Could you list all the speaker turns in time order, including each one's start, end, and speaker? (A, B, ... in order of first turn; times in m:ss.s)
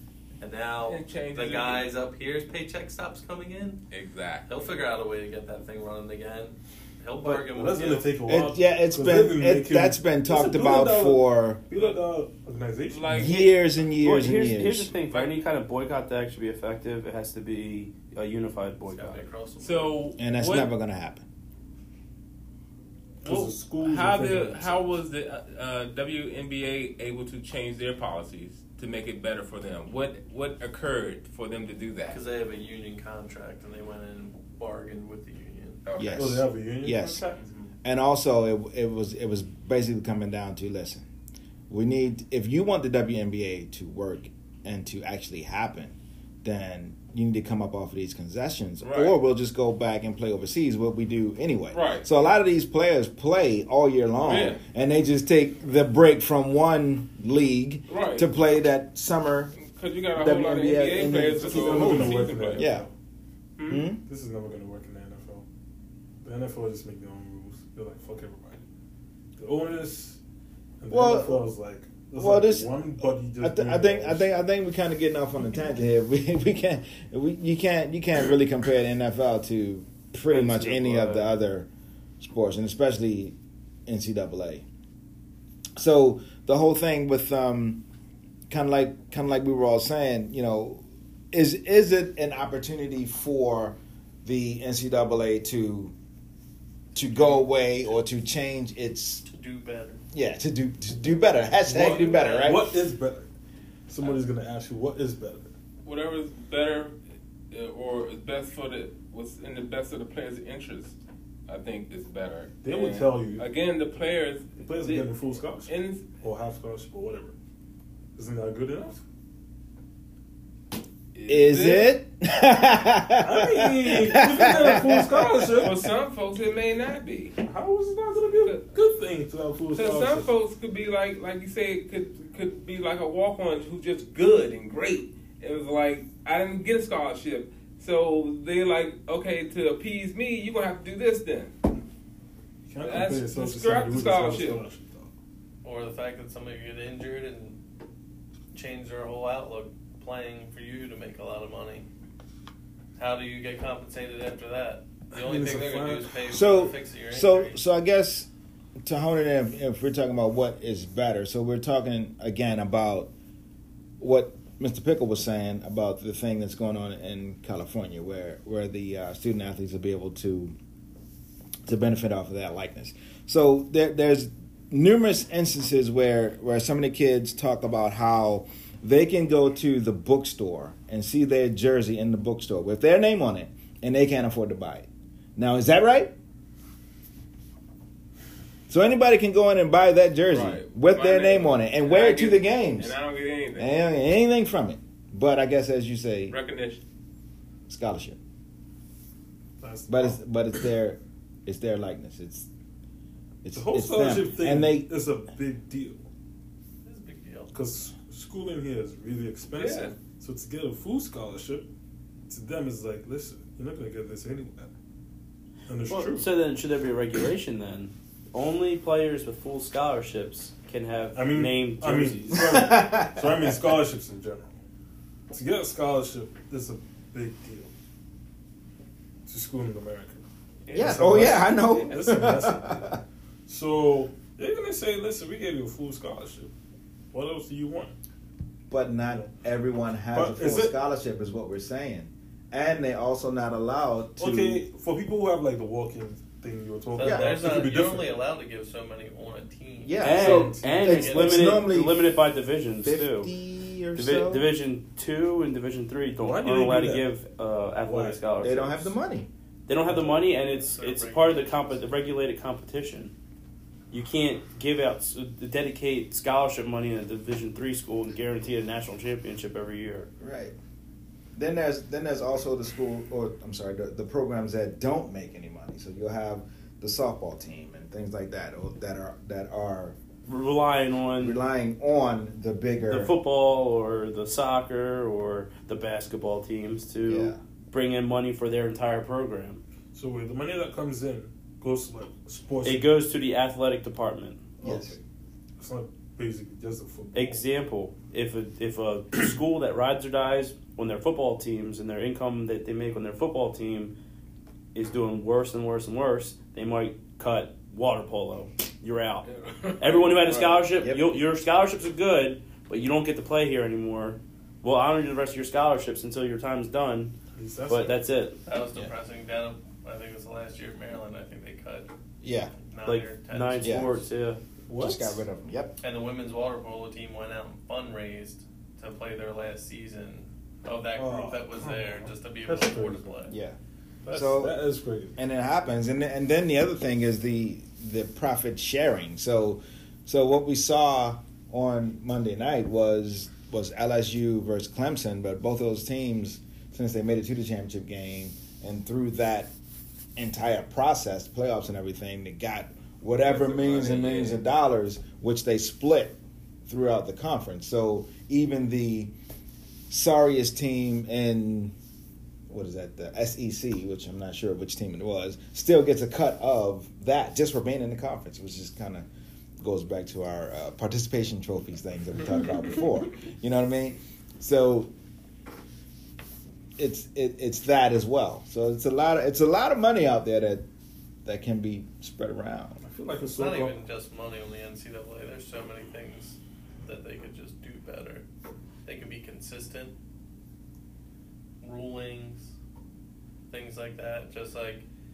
0:00.4-0:03.8 A
0:00.9-0:01.9 B
0:03.9-0:04.5 B
0:04.5-0:08.1 A
0:07.2-0:13.4 C
0:08.3-0:11.6 D
0:12.9-0:13.5 B
0:13.2-0:14.9 D
0:14.0-0:19.3 E
0:15.0-0:15.3 B
0:18.9-0:20.0 A
0:19.6-0:20.7 B
0:20.2-0:21.3 D
0:23.2-0:24.9 C
0:23.2-0:32.2 B
0:32.1-0:35.8 A
0:35.9-0:36.4 B
0:36.0-0:37.2 D
0:36.1-0:37.4 C
0:37.4-0:37.7 A
0:37.8-0:41.1 D
0:41.7-0:59.5 D
0:48.8-0:49.2 B
0:51.7-0:52.1 B
0:54.2-0:54.6 B
0:57.9-0:58.3 B
0:59.6-1:02.7 B
1:00.2-1:02.9 D
1:01.3-1:02.9 C
1:03.6-1:05.4 C
1:03.7-1:04.0 D
1:06.2-1:08.6 C
1:09.4-1:10.2 C
1:10.8-1:14.4 C
1:10.9-1:11.4 D
1:12.2-1:12.7 D
1:13.4-1:21.7 D
1:20.3-1:21.3 E
1:22.2-1:23.4 D
1:23.9-1:24.6 D
1:25.8-1:27.8 D
1:28.5-1:35.9 D
1:37.0-1:39.2 D
1:39.3-1:40.0 A
1:40.1-1:42.7 D
1:41.6-1:43.3 C
1:41.8-1:42.7 A
1:43.9-1:45.5 C
1:45.8-1:46.9 B
1:47.5-1:51.0 B
1:51.5-1:55.1 B
1:52.6-1:53.5 C
1:54.6-1:57.4 C
1:55.7-1:56.1 B
1:58.2-1:59.0 C
2:01.1-2:01.9 B
2:01.3-2:05.5 D
2:03.2-2:05.9 C
2:05.6-2:07.4 B
2:07.4-2:10.3 C
2:08.1-2:08.9 B
2:09.7-2:21.6 B
2:22.7-2:25.1 C
2:22.8-2:24.6 B
2:25.6-2:27.6 A
2:28.5-2:31.9 A
2:33.0-2:37.6 A
2:35.1-2:36.3 C
2:36.3-2:38.3 D
2:38.8-2:43.1 D
2:44.0-2:50.6 D
2:51.7-3:06.1 D
3:08.7-3:13.0 D
3:10.3-3:13.8 B
3:13.6-3:16.4 D
3:16.3-3:16.8 B
3:17.7-3:18.2 D
3:19.6-3:20.2 C
3:19.9-3:22.5 D
3:23.4-3:24.9 D
3:23.5-3:26.0 C
3:26.8-3:27.5 A
3:27.5-3:31.7 C
3:29.5-3:30.0 B
3:32.3-3:34.7 C
3:35.7-3:36.3 C
3:35.9-3:42.6 E
3:41.1-3:44.6 C
3:42.3-3:43.6 D
3:45.3-3:47.7 C
3:49.3-3:50.2 C
3:50.7-3:51.1 B
3:50.7-3:53.0 D
3:50.7-3:52.9 C
3:53.5-3:56.5 C
3:57.1-3:58.0 C
3:58.7-4:04.6 D
4:00.1-4:00.7 C
4:04.2-4:08.1 C
4:07.0-4:11.6 A
4:07.0-4:07.5 D
4:09.8-4:12.0 D
4:10.0-4:13.3 E
4:10.2-4:10.8 C
4:12.8-4:14.5 D
4:14.0-4:18.9 E
4:16.2-4:17.1 C
4:17.8-4:18.3 C
4:18.4-4:19.3 D
4:19.7-4:23.1 E
4:20.3-4:21.8 A
4:23.9-4:30.1 E
4:30.2-4:30.6 D
4:31.4-4:40.0 D
4:40.3-4:41.4 E
4:41.2-4:43.1 D
4:42.9-4:49.6 E
4:47.0-4:47.4 D
4:49.9-4:52.9 C
4:52.6-4:54.6 E
4:54.6-4:55.0 C
4:54.6-4:55.0 D
4:55.6-4:57.4 C
4:57.1-5:03.9 E
5:04.8-5:09.3 E
5:09.2-5:10.6 B
5:09.8-5:17.2 E
5:10.8-5:11.1 D
5:17.3-5:18.0 C
5:17.7-5:18.4 E
5:18.5-5:21.9 A
5:22.2-5:22.5 D
5:22.6-5:24.0 A
5:22.8-5:24.4 E
5:23.6-5:24.0 D
5:24.7-5:25.2 C
5:24.8-5:25.8 D
5:25.8-5:33.3 A
5:31.0-5:33.1 C
5:33.3-5:33.6 D
5:34.0-5:35.2 C
5:34.1-5:34.6 D
5:35.2-5:49.5 D
5:50.2-5:59.1 D
5:53.3-5:54.4 B
5:59.9-6:01.8 D
6:02.5-6:09.1 D
6:09.6-6:14.9 D
6:16.8-6:20.7 D
6:21.2-6:22.8 D
6:22.8-6:23.8 C
6:23.3-6:28.2 A
6:28.8-6:30.0 A
6:31.6-6:32.5 A
6:33.5-6:34.8 A